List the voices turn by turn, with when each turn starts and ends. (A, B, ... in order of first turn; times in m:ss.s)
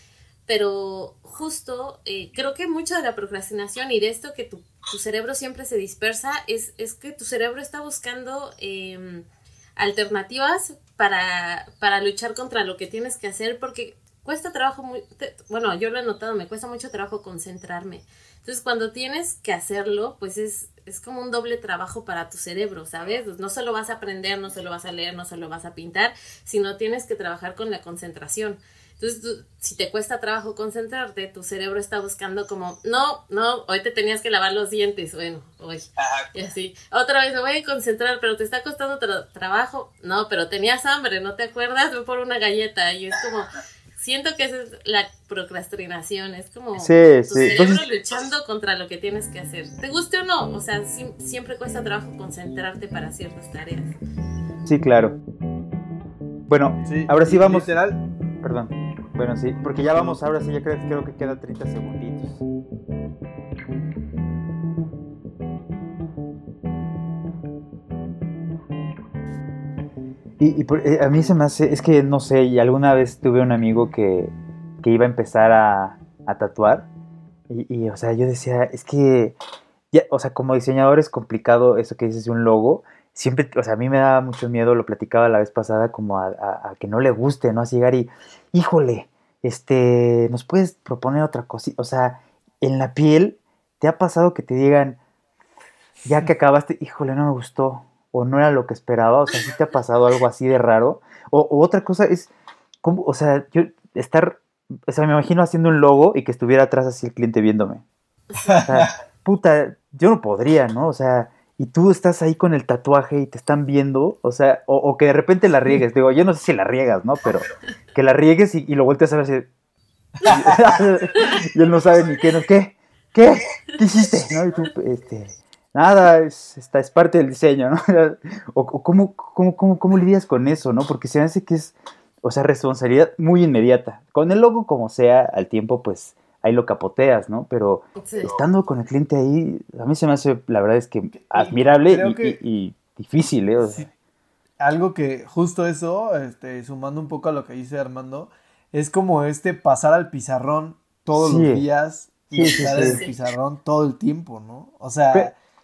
0:00.5-0:09.2 A
0:09.8-0:53.9 A
0:46.8-0:47.8 B
0:54.6-0:55.2 B
0:56.5-0:57.7 B
0:56.8-0:58.0 C
0:58.4-1:02.4 B
1:10.4-1:16.9 B
1:17.5-1:19.3 B
1:19.9-1:35.0 B
1:36.0-1:42.3 B
1:42.8-1:47.8 B
1:48.3-1:48.7 A
1:48.4-1:48.9 C
1:48.6-1:59.5 B
2:00.2-2:23.9 B
2:18.0-2:18.4 A
2:21.1-2:22.4 C
2:23.6-2:23.9 C
2:24.6-2:35.3 C
2:31.1-2:31.6 B
2:32.3-2:33.0 B
2:32.4-2:33.2 A